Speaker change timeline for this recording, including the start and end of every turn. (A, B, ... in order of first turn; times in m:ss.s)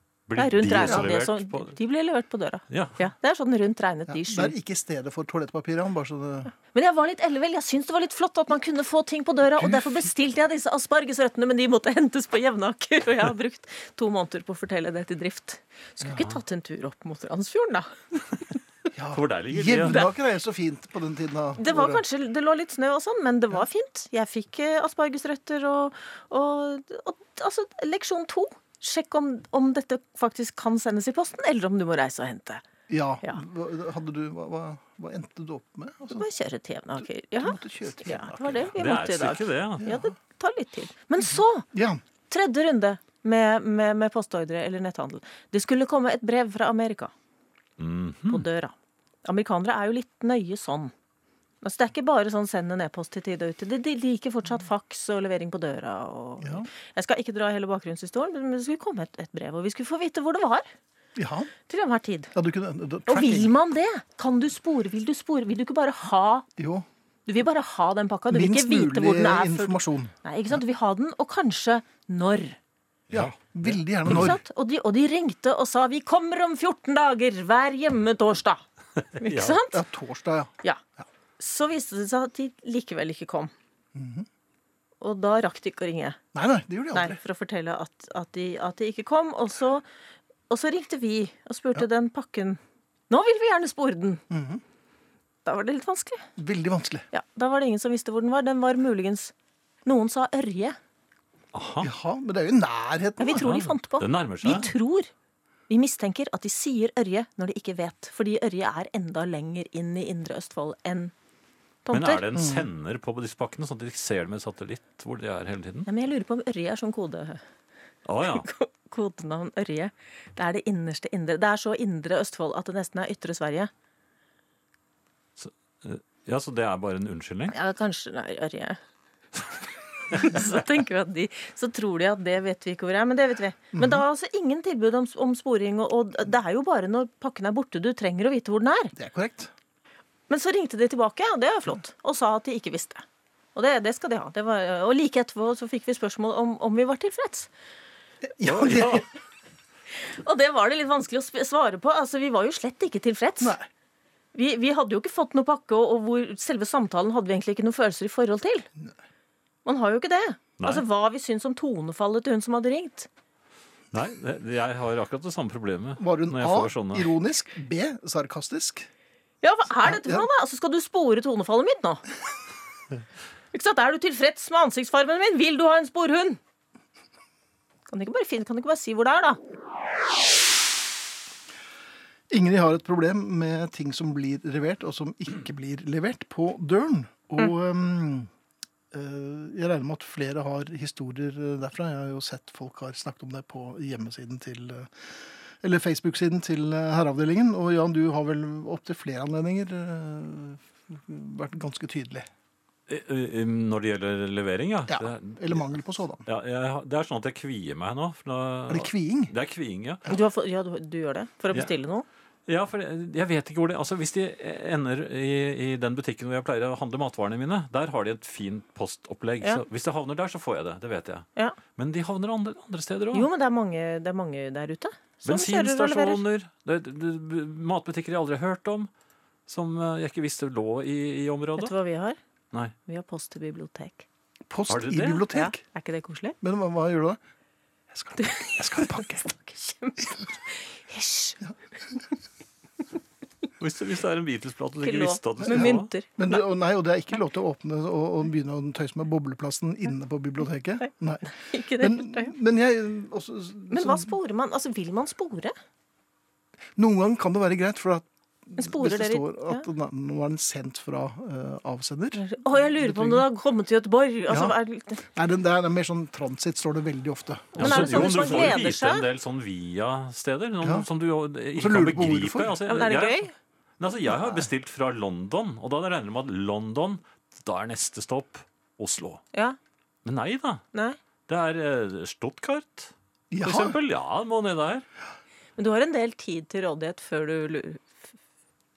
0:00.3-0:01.7 A
0:00.4-0:04.5 B
0:00.8-0:01.1 C
0:02.7-0:03.0 A
0:04.1-0:06.5 C
0:06.7-0:18.6 B
0:09.6-0:10.1 C
0:18.9-0:22.0 C
0:19.1-0:20.1 A
0:21.6-0:32.6 B
0:32.9-0:36.3 C
0:36.1-0:41.7 B
0:37.3-0:38.7 C
0:38.8-0:39.8 A
0:39.8-0:40.1 C
0:41.7-0:42.0 C
0:42.3-0:47.1 B
0:47.8-0:48.4 A
0:48.3-0:50.9 B
0:51.6-1:00.7 B
0:56.4-0:56.7 C
1:01.2-1:01.5 C
1:01.7-1:02.3 B
1:02.3-1:03.5 C
1:03.1-1:06.5 B
1:06.6-1:06.9 C
1:07.3-1:12.6 B
1:08.3-1:10.1 C
1:13.1-1:14.4 C
1:13.1-1:14.3 A
1:14.0-1:18.6 B
1:19.2-1:19.8 B
1:19.2-1:19.6 A
1:19.6-1:20.5 C
1:21.4-1:23.5 B
1:23.9-1:24.3 C
1:25.0-1:26.2 B
1:26.3-1:27.2 C
1:26.9-1:29.8 B
1:30.5-1:34.2 B
1:34.3-1:34.6 C
1:35.4-1:36.3 B
1:36.4-1:37.1 C
1:37.1-1:39.3 B
1:39.8-1:40.8 B
1:41.5-1:41.9 A
1:41.8-1:43.6 C
1:43.2-1:45.1 B
1:43.4-1:44.7 A
1:45.7-1:51.1 B
1:51.8-1:52.3 B
1:51.9-1:55.9 A
1:52.3-1:52.7 C
1:55.9-1:57.4 B
1:58.1-1:58.5 A
1:58.2-2:03.7 B
2:05.4-2:07.5 A
2:07.5-2:08.8 B
2:10.1-2:18.9 B
2:13.8-2:14.0 C
2:19.0-2:19.5 C
2:20.3-2:23.0 B
2:23.6-2:27.5 B
2:28.2-2:29.1 C
2:28.4-2:29.0 A
2:30.0-2:33.6 B
2:33.4-2:33.7 C
2:34.3-2:38.7 B
2:39.6-2:43.1 B
2:40.6-2:40.8 A
2:43.9-2:47.1 A
2:46.0-2:48.9 C
2:49.4-2:52.0 B
2:49.8-2:50.3 C
2:53.5-2:56.4 B
2:57.9-2:59.4 B
3:02.3-3:08.3 C
3:08.9-3:22.3 C
3:22.9-3:25.7 A
3:24.9-3:26.2 C
3:26.2-3:30.0 A
3:28.7-3:29.3 C
3:30.1-3:32.1 B
3:32.5-3:43.3 A
3:43.1-3:46.2 B
3:45.2-3:48.9 A
3:49.5-3:51.7 A
3:51.6-3:52.2 B
3:52.9-3:54.1 B
3:54.5-3:55.6 C
3:54.7-3:55.3 A
3:55.3-3:56.4 B
3:56.4-3:57.2 C
3:57.9-3:59.2 C
3:58.2-4:01.4 B
4:03.6-4:05.9 A
4:04.8-4:06.4 B
4:05.4-4:14.2 C
4:11.3-4:12.4 B
4:13.7-4:15.5 B
4:16.8-4:23.2 C
4:18.6-4:19.7 B
4:22.2-4:25.0 B
4:24.3-4:28.6 C
4:27.6-4:33.3 A
4:27.6-4:29.0 B
4:30.6-4:30.9 C
4:31.6-4:32.6 C
4:32.7-4:33.3 B
4:33.8-4:39.2 A
4:40.0-4:40.6 A
4:40.7-4:41.0 B
4:41.3-4:44.9 A
4:43.3-4:43.8 C
4:45.6-4:47.9 B